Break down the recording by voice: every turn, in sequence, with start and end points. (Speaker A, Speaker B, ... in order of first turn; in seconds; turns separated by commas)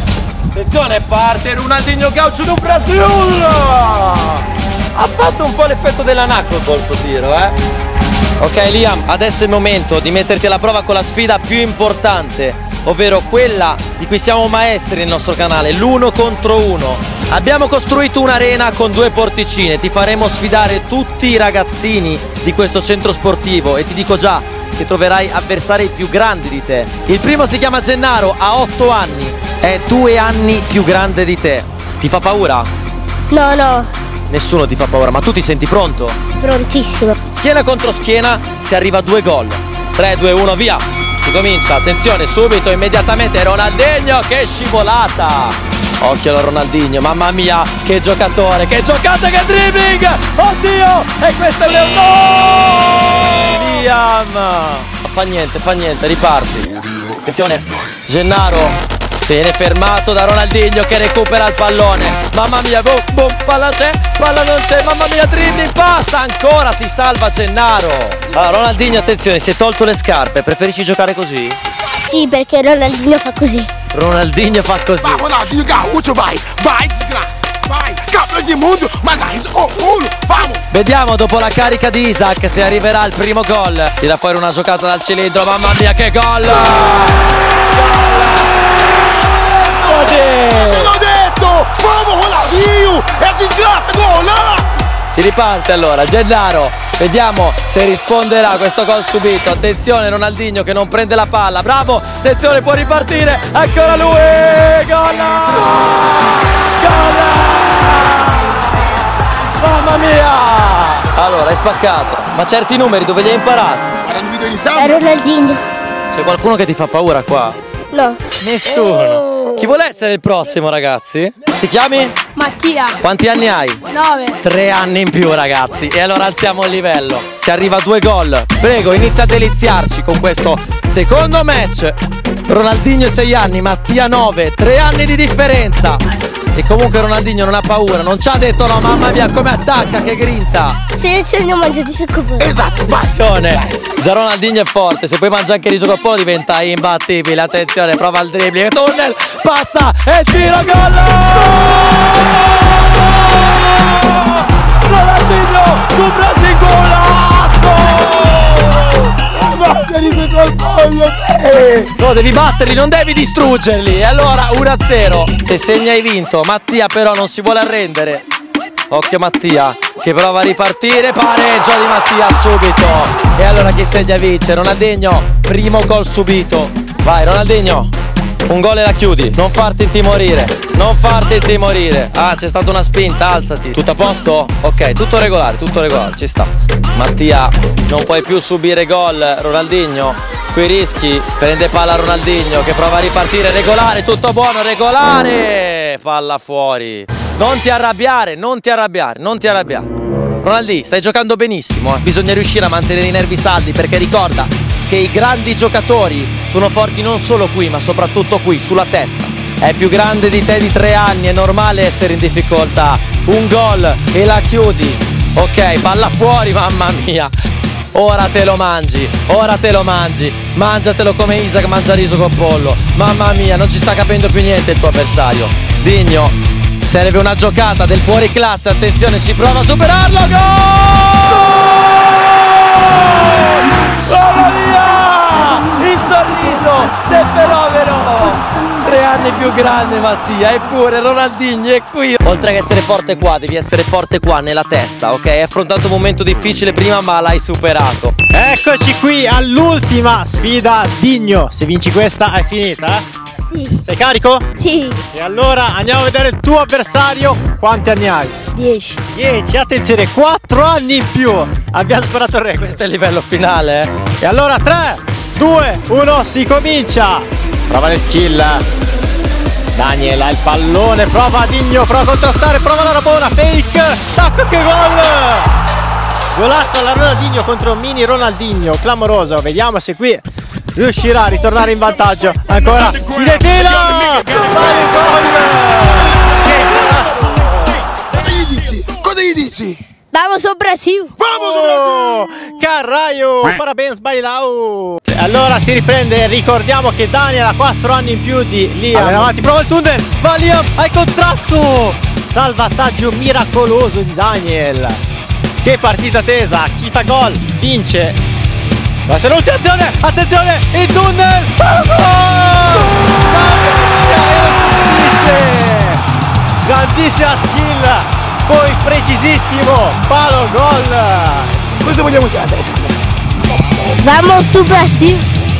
Speaker A: 0.5-7.5, Speaker A: 8.4-32.7, Speaker B: 33.3-33.9, Speaker A: 34.3-36.2, Speaker B: 36.4-37.1, Speaker A: 37.3-71.6, Speaker B: 72.0-73.7, Speaker A: 73.9-75.2, Speaker C: 75.0-80.6, Speaker A: 80.7-88.5, Speaker C: 89.1-94.7, Speaker A: 89.8-90.9, Speaker A: 95.1-108.7, Speaker A: 109.5-113.9, Speaker C: 114.0-115.0, Speaker B: 114.7-115.6, Speaker A: 116.1-117.6, Speaker B: 117.9-118.2, Speaker A: 118.4-122.2, Speaker C: 118.8-119.5, Speaker B: 122.3-122.9, Speaker A: 123.0-123.8, Speaker B: 123.9-124.3, Speaker A: 124.4-136.0, Speaker A: 136.5-140.8, Speaker B: 140.9-142.6, Speaker C: 142.4-143.2, Speaker A: 142.9-159.1, Speaker C: 159.3-161.9, Speaker A: 162.0-168.2, Speaker A: 168.9-177.9, Speaker A: 178.5-199.9, Speaker A: 200.4-217.3, Speaker A: 217.9-248.1, Speaker D: 248.3-253.0, Speaker B: 253.5-253.8, Speaker D: 253.8-254.4, Speaker B: 254.6-255.0, Speaker D: 255.1-258.4, Speaker B: 258.5-259.0, Speaker D: 259.1-262.7, Speaker A: 262.6-263.9, Speaker D: 264.2-268.6, Speaker D: 269.8-275.5, Speaker D: 276.3-280.2, Speaker D: 280.8-287.8, Speaker C: 284.2-284.5, Speaker C: 287.9-289.8, Speaker B: 290.1-291.1, Speaker C: 291.2-292.5, Speaker D: 291.4-305.0, Speaker D: 305.6-308.2, Speaker D: 309.1-316.0, Speaker D: 316.6-321.6, Speaker C: 321.8-323.0, Speaker C: 323.5-324.0, Speaker B: 324.0-325.2